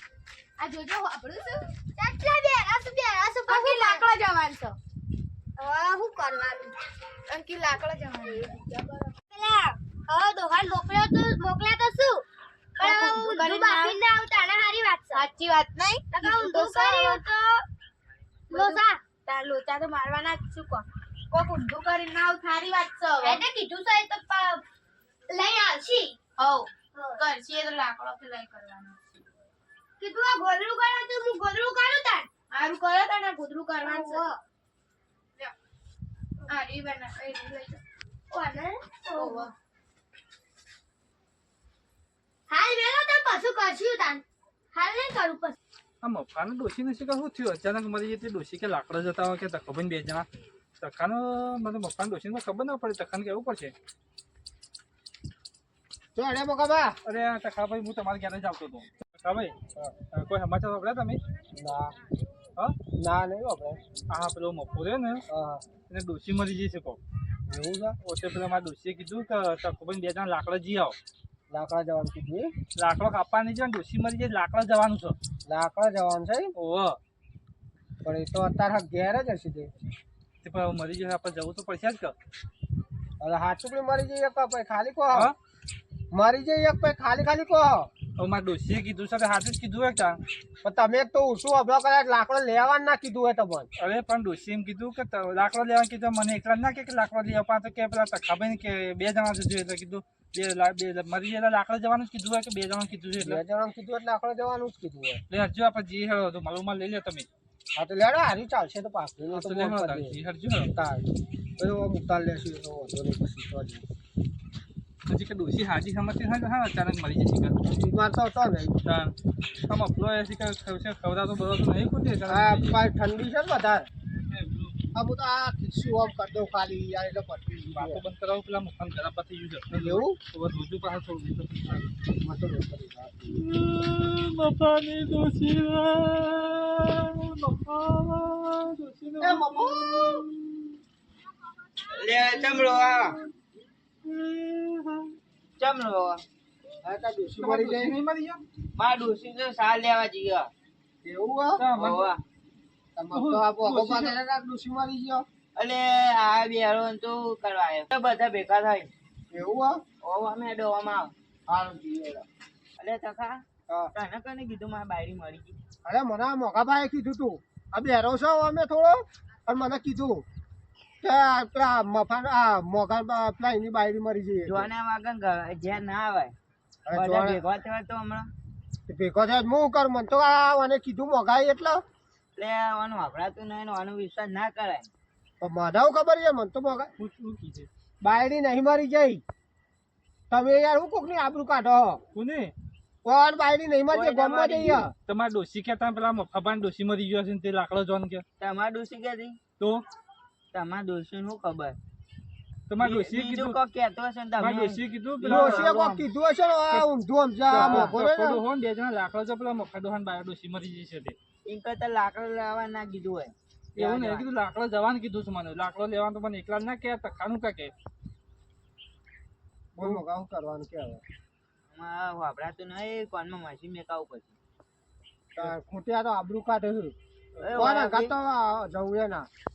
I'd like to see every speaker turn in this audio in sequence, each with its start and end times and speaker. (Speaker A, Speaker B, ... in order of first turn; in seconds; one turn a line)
Speaker A: 0.6-1.7
Speaker B: 2.0-4.0
Speaker A: 3.5-4.8
Speaker B: 5.6-6.8
Speaker A: 7.3-8.6
Speaker B: 9.3-12.2
Speaker A: 12.8-14.0
Speaker B: 12.8-15.2
Speaker A: 15.1-17.2
Speaker B: 16.1-17.6
Speaker A: 18.5-23.4
Speaker B: 18.5-19.0
Speaker B: 23.2-24.6
Speaker B: 25.3-26.2
Speaker A: 26.4-29.0
Speaker B: 26.9-27.2
Speaker B: 30.0-32.3
Speaker A: 32.5-34.3
Speaker B: 33.8-34.4
Speaker A: 36.5-37.8
Speaker B: 38.3-39.5
Speaker A: 39.1-39.5
Speaker B: 42.5-44.2
Speaker B: 44.7-45.6
Speaker C: 46.0-50.3
Speaker C: 50.8-53.7
Speaker D: 56.1-57.0
Speaker C: 57.0-59.5
Speaker C: 60.1-61.2
Speaker D: 61.5-62.0
Speaker D: 63.0-63.8
Speaker C: 64.1-65.2
Speaker D: 65.3-65.6
Speaker C: 65.9-67.0
Speaker D: 67.5-68.0
Speaker C: 68.0-71.0
Speaker D: 71.5-72.5
Speaker C: 72.8-75.2
Speaker D: 75.5-76.5
Speaker C: 76.6-77.0
Speaker D: 78.0-79.7
Speaker C: 80.4-82.2
Speaker D: 83.2-85.3
Speaker D: 86.1-87.9
Speaker C: 88.2-90.2
Speaker D: 90.6-93.7
Speaker C: 93.8-103.4
Speaker D: 103.2-105.2
Speaker C: 105.3-107.3
Speaker D: 107.8-110.2
Speaker C: 109.3-110.7
Speaker D: 110.7-111.1
Speaker D: 111.6-113.8
Speaker C: 115.1-117.6
Speaker D: 117.7-118.8
Speaker C: 118.8-119.1
Speaker C: 119.7-122.8
Speaker D: 122.3-123.9
Speaker C: 124.3-124.8
Speaker D: 124.9-128.0
Speaker C: 127.7-131.9
Speaker D: 129.7-130.2
Speaker D: 132.2-133.4
Speaker C: 133.3-140.7
Speaker D: 139.2-140.3
Speaker E: 141.9-143.2
Speaker E: 144.3-144.9
Speaker E: 145.6-146.2
Speaker D: 146.8-148.0
Speaker C: 147.4-148.4
Speaker E: 148.8-150.5
Speaker D: 151.0-151.7
Speaker C: 151.6-152.1
Speaker E: 151.8-152.2
Speaker D: 153.0-155.3
Speaker C: 153.1-154.2
Speaker E: 155.6-158.9
Speaker D: 159.3-159.8
Speaker E: 160.0-161.1
Speaker D: 161.5-162.3
Speaker E: 162.8-163.4
Speaker E: 163.9-165.6
Speaker D: 165.8-170.2
Speaker D: 171.0-174.7
Speaker E: 174.5-176.3
Speaker D: 176.9-177.4
Speaker E: 176.9-178.3
Speaker D: 178.9-181.8
Speaker E: 182.4-184.9
Speaker D: 185.4-186.9
Speaker C: 187.0-187.7
Speaker D: 188.0-189.2
Speaker D: 190.3-192.0
Speaker C: 192.1-192.5
Speaker D: 193.0-194.9
Speaker E: 193.9-194.9
Speaker C: 195.1-198.2
Speaker E: 198.4-199.4
Speaker C: 199.6-199.8
Speaker E: 200.5-201.8
Speaker C: 202.7-203.6
Speaker E: 202.8-205.8
Speaker C: 204.4-206.0
Speaker D: 205.2-208.4
Speaker C: 207.5-211.2
Speaker E: 207.5-207.9
Speaker E: 211.4-214.3
Speaker C: 213.8-217.7
Speaker D: 219.8-221.0
Speaker E: 221.7-224.4
Speaker D: 225.4-226.9
Speaker E: 227.4-228.1
Speaker D: 227.5-229.3